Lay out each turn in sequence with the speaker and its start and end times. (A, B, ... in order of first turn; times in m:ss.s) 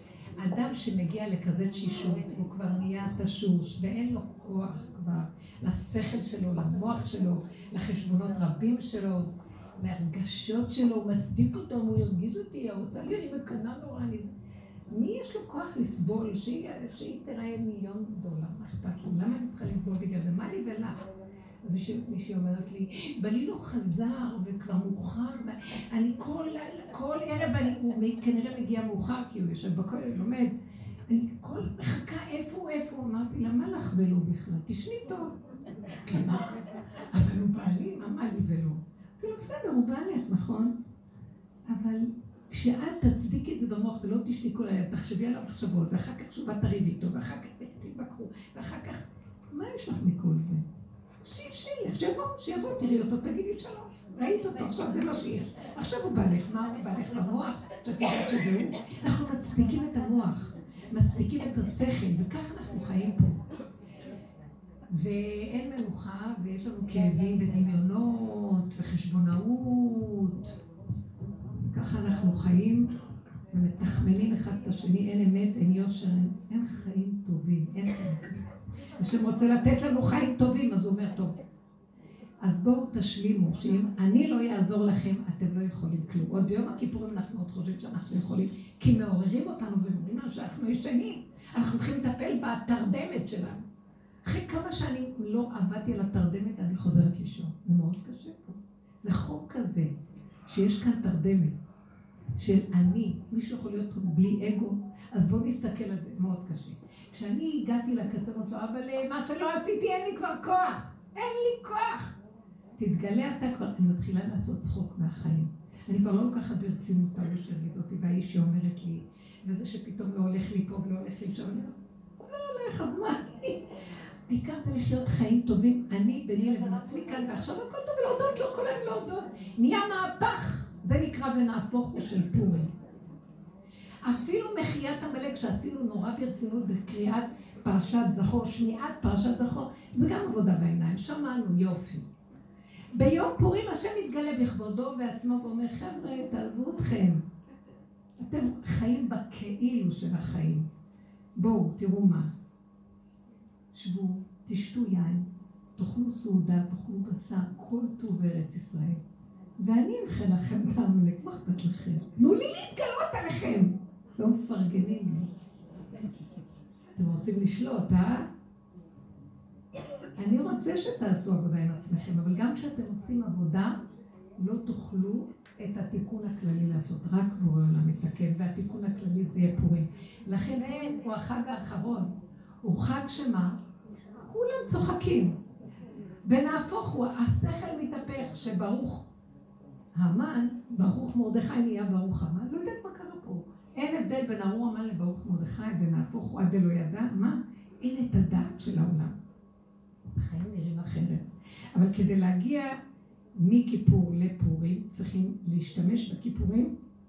0:00.4-0:14.3 A
0:14.9-0:21.0 A
0:21.6-0:30.5 A
0:31.1-0:35.4 A
0:36.0-0:36.6 A
0:37.1-0:40.7 A
0:41.7-0:50.6 A
0:51.2-1:03.4 A
1:04.9-1:10.6 A
1:11.7-1:12.9 A
1:13.5-1:18.3 A
1:19.0-1:21.3 A
1:22.4-1:33.6 A
1:34.2-1:39.9 A
1:40.5-1:41.6 A
1:42.4-1:52.2 A
1:52.8-2:03.7 A
2:04.3-2:12.7 A
2:14.0-2:22.0 A
2:22.9-2:27.2 A
2:28.2-2:30.6 A
2:31.4-2:32.3 A
2:33.7-2:39.0 A
2:39.6-2:45.3 A
2:47.0-2:48.3 A
2:50.2-2:53.8 A
2:54.4-3:02.1 A
3:02.6-3:03.6 A
3:04.2-3:05.4 A
3:06.2-3:09.0 A
3:09.9-3:19.1 A
3:20.1-3:21.2 A
3:21.7-3:22.8 A
3:23.3-3:26.7 A